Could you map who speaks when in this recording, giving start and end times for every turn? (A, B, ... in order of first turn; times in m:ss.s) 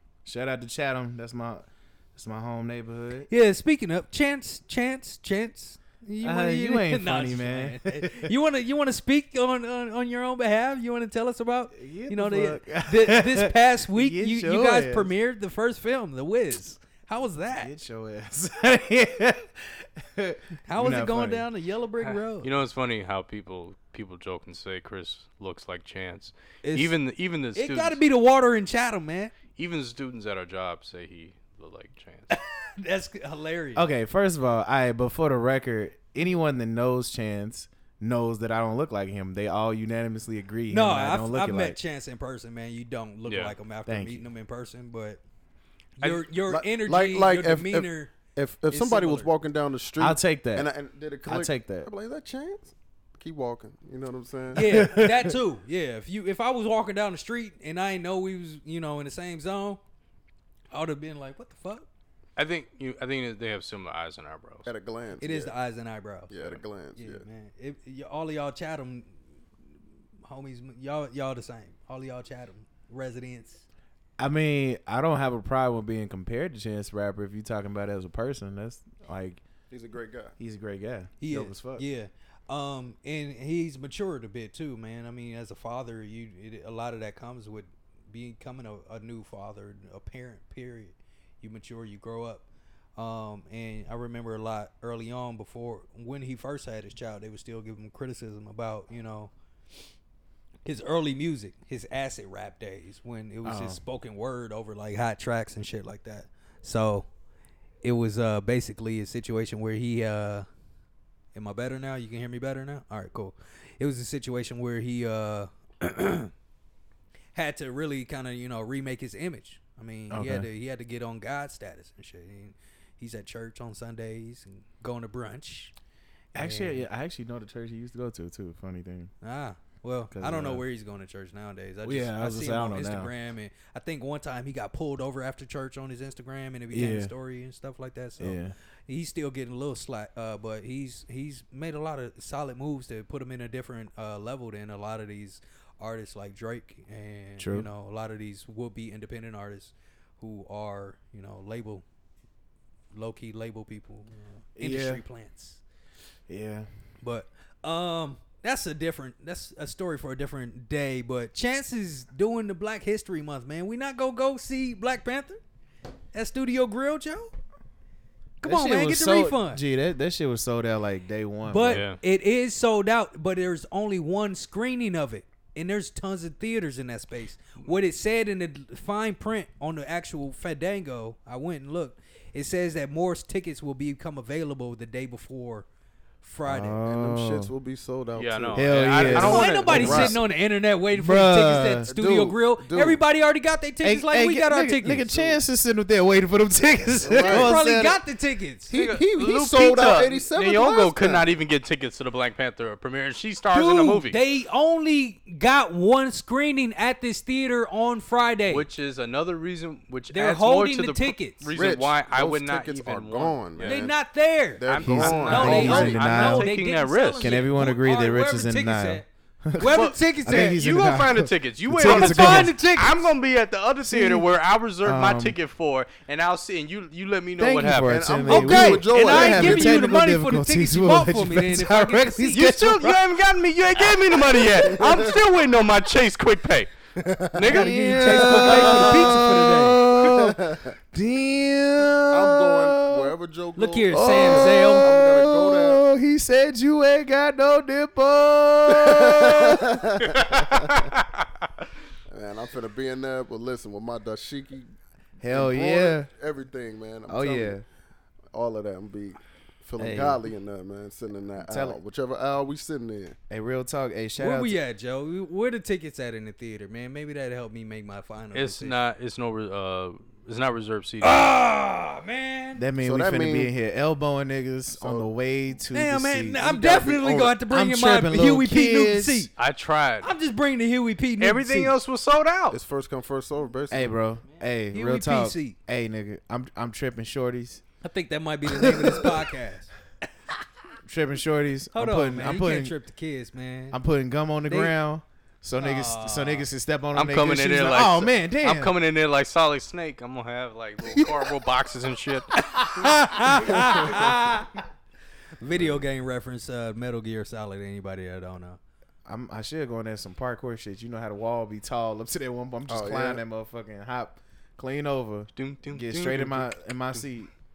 0:00.2-0:03.3 A
0:03.3-0:17.7 B
0:06.2-0:08.3 A
0:11.7-0:15.1 A
0:17.5-0:21.5 A
0:20.6-0:22.5 B
0:22.1-0:28.0 C
0:26.6-0:26.9 B
0:27.5-0:29.3 B
0:29.6-0:32.4 C
0:32.3-0:33.9 B
0:33.8-0:41.8 A
0:40.7-0:45.2 B
0:43.2-0:43.5 C
0:43.8-0:44.3 A
0:46.0-0:48.1 B
0:46.0-0:54.8 D
0:48.7-0:49.3 B
0:50.0-0:50.7 A
0:51.2-0:51.9 A
0:54.5-0:59.8 B
0:54.6-0:55.4 A
1:00.7-1:01.9 B
1:02.4-1:04.7 C
1:04.6-1:05.5 D
1:05.2-1:09.2 B
1:06.3-1:07.2 D
1:10.2-1:13.6 B
1:14.2-1:19.4 A
1:19.7-1:20.4 D
1:20.4-1:21.8 A
1:21.2-1:39.3 B
1:40.6-1:47.1 B
1:43.4-1:43.8 A
1:47.8-1:50.4 B
1:51.3-1:56.3 B
1:57.3-2:05.7 B
2:00.1-2:00.5 A
2:06.3-2:06.8 B
2:06.3-2:09.1 A
2:09.2-2:31.8 B
2:10.1-2:10.6 A
2:11.8-2:13.1 A
2:16.7-2:17.1 A
2:18.2-2:18.5 A
2:27.4-2:27.7 A
2:32.9-2:35.6 B
2:34.6-2:35.0 A
2:36.3-2:36.7 A
2:37.0-2:45.4 B
2:46.1-2:47.3 B
2:48.4-2:49.6 B
2:48.4-2:51.8 A
2:51.5-3:05.6 B
2:51.6-2:52.0 C
3:06.2-3:06.8 B
3:06.5-3:07.5 A
3:06.8-3:10.2 D
3:08.1-3:10.0 C
3:08.5-3:10.2 A
3:08.9-3:15.4 B
3:10.9-3:11.9 A
3:11.9-3:13.0 D
3:13.8-3:18.0 A
3:17.0-3:17.5 D
3:17.2-3:18.7 B
3:18.7-3:21.3 D
3:18.7-3:24.2 C
3:23.5-3:28.6 B
3:28.5-3:33.9 C
3:30.1-3:31.5 B
3:31.5-3:33.9 D
3:33.6-3:40.6 B
3:34.6-3:36.0 D
3:34.6-3:37.3 C
3:34.8-3:36.5 A
3:37.2-3:42.6 A
3:39.6-3:48.1 C
3:41.8-3:43.1 B
3:43.9-3:44.3 A
3:44.8-3:45.4 A
3:47.4-3:53.0 A
3:47.8-3:49.9 D
3:48.3-3:52.5 B
3:52.3-3:56.7 C
3:54.6-3:55.2 D
3:57.0-3:57.5 D
3:57.3-3:58.7 C
3:57.5-4:03.1 A
3:57.5-3:59.8 B
3:58.3-3:59.3 D
3:59.9-4:00.8 D
4:02.1-4:05.8 D
4:03.6-4:04.9 B
4:03.9-4:10.7 A
4:08.7-4:10.9 D
4:10.8-4:11.2 C
4:12.1-4:14.7 D
4:15.2-4:16.1 A
4:15.3-4:17.6 D
4:17.0-4:17.6 A
4:18.3-4:23.2 D
4:19.8-4:20.2 A
4:21.4-4:21.8 A
4:23.3-4:24.6 A
4:24.2-4:28.8 B
4:28.3-4:31.2 C
4:31.0-4:32.6 B
4:32.6-4:36.5 A
4:32.8-4:33.5 D
4:34.7-4:35.1 D
4:35.7-4:39.3 B
4:36.4-4:37.4 D
4:37.4-4:39.3 A
4:39.4-4:40.1 C
4:40.0-4:41.8 B
4:41.2-4:42.6 C
4:42.5-4:44.0 D
4:43.7-4:47.6 A
4:44.7-4:45.6 B
4:47.8-4:49.7 B
4:48.6-4:49.1 A
4:50.8-4:52.8 A
4:51.7-4:53.8 B
4:53.7-4:58.7 A
4:54.5-4:54.8 B
4:55.6-4:56.5 B
4:56.9-5:02.6 C
5:02.4-5:04.6 B
5:03.6-5:04.0 D
5:05.4-5:08.6 B
5:09.0-5:17.3 A
5:12.7-5:13.2 D
5:15.4-5:17.0 C